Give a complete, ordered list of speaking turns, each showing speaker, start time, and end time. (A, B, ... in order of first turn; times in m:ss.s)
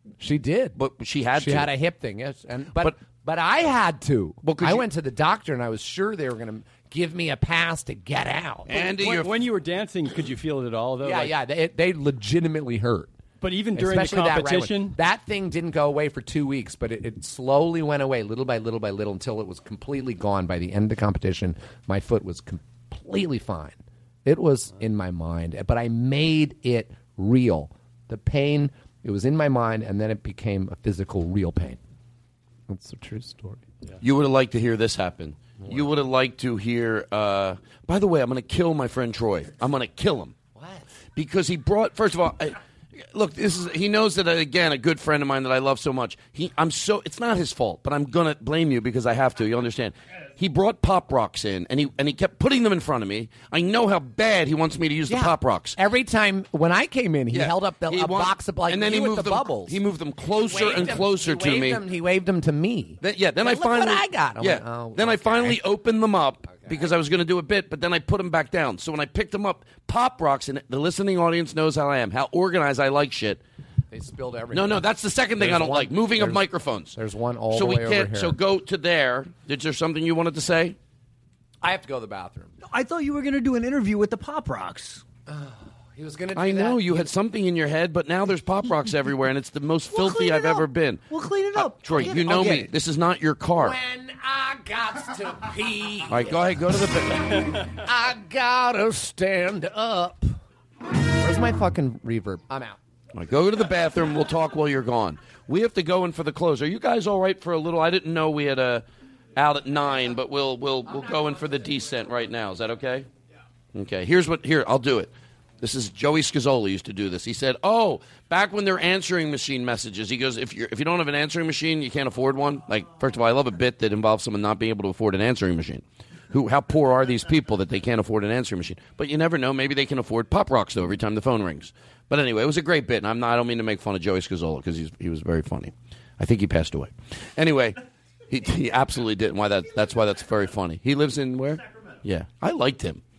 0:00.2-0:00.8 A
0:00.8-0:01.7 B
0:01.3-0:08.8 A
0:04.4-0:04.8 B
0:08.7-0:11.4 C
0:08.7-0:09.4 B
0:11.0-0:13.1 A
0:13.4-0:15.0 C
0:13.7-0:31.8 A
0:32.7-0:33.6 A
0:34.0-0:40.3 B
0:35.6-0:35.9 A
0:40.5-0:40.8 A
0:41.2-0:55.8 B
0:55.1-1:05.6 A
0:57.3-1:01.8 B
1:03.0-1:13.4 B
1:06.4-1:06.9 A
1:13.9-1:18.4 A
1:14.5-1:17.0 B
1:17.5-1:20.8 B
1:21.6-1:22.5 A
1:22.6-1:25.0 D
1:25.3-1:27.1 A
1:26.3-1:31.0 B
1:29.9-1:32.7 D
1:31.5-1:33.8 B
1:33.5-1:36.8 A
1:36.1-1:37.6 B
1:37.4-1:40.3 A
1:41.2-1:42.8 A
1:43.1-1:48.8 B
1:49.4-1:53.1 B
1:53.7-2:17.8 B
2:18.3-2:23.0 B